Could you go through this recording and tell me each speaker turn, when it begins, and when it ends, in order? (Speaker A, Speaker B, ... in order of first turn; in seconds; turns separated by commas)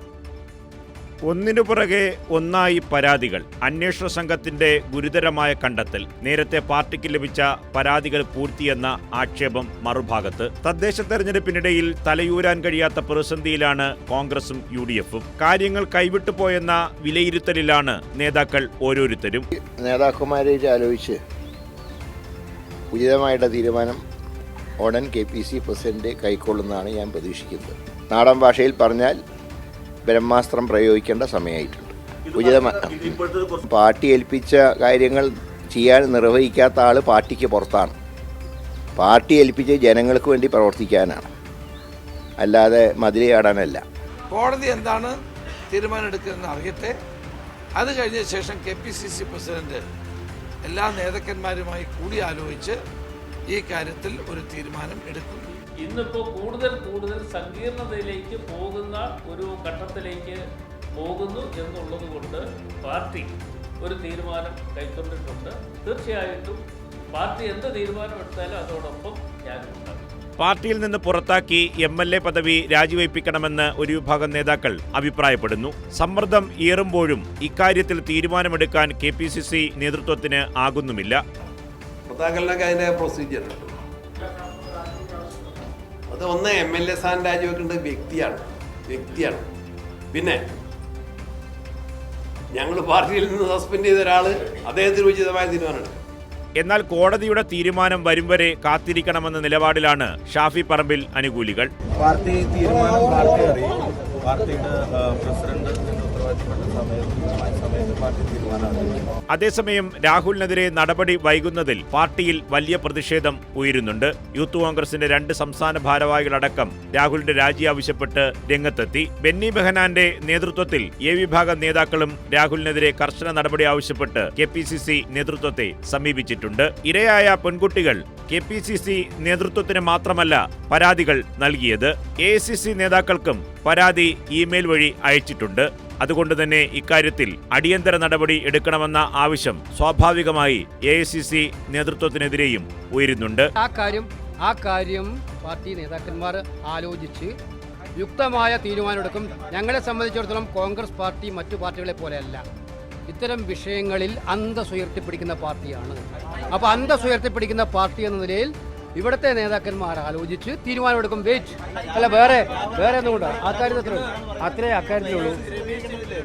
Speaker A: 1.3-19.4, Speaker B: 19.5-21.2, Speaker B: 22.9-24.0, Speaker B: 24.8-29.2, Speaker B: 30.1-37.9, Speaker A: 32.3-33.6, Speaker B: 39.0-41.3, Speaker B: 42.4-43.8, Speaker C: 44.3-45.2, Speaker C: 45.7-47.0, Speaker C: 47.8-49.8, Speaker C: 50.6-52.8, Speaker C: 53.5-55.5, Speaker D: 55.8-60.4, Speaker D: 61.0-66.6, Speaker D: 67.1-70.0, Speaker A: 70.4-81.2, Speaker E: 82.1-83.7, Speaker E: 86.1-89.4, Speaker E: 90.1-90.4, Speaker E: 92.5-96.0, Speaker A: 96.6-101.7, Speaker F: 102.0-109.0, Speaker A: 109.3-143.5, Speaker G: 143.6-147.3, Speaker G: 148.0-152.4, Speaker G: 153.1-165.4